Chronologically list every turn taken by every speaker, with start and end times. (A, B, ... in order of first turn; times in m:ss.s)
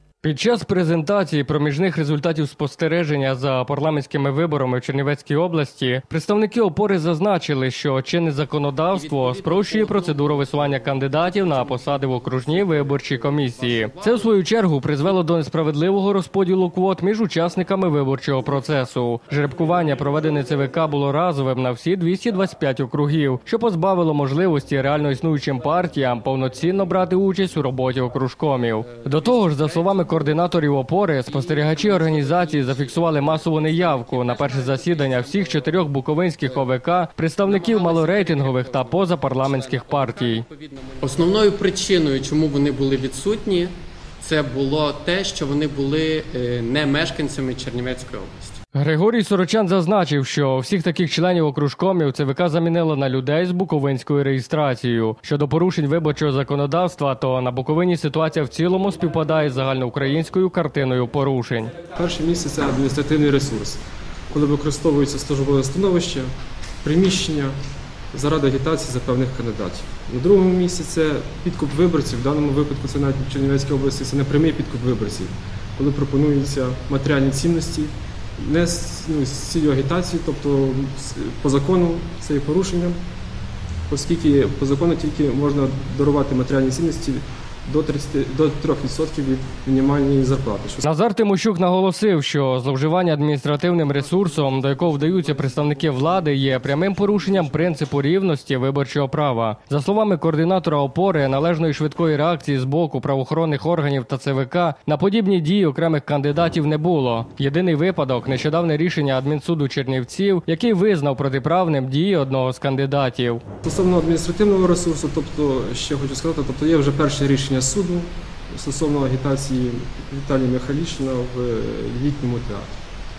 0:00.2-0:40.5 A
0:08.9-0:14.3 B
0:29.0-0:30.4 B
0:31.3-0:35.9 B
0:37.4-0:48.6 B
0:48.8-1:01.8 A
1:01.9-1:07.6 C
1:08.1-1:23.0 C
1:23.9-1:30.9 C
1:30.9-1:53.4 A
1:35.2-1:37.5 C
1:53.6-2:02.8 C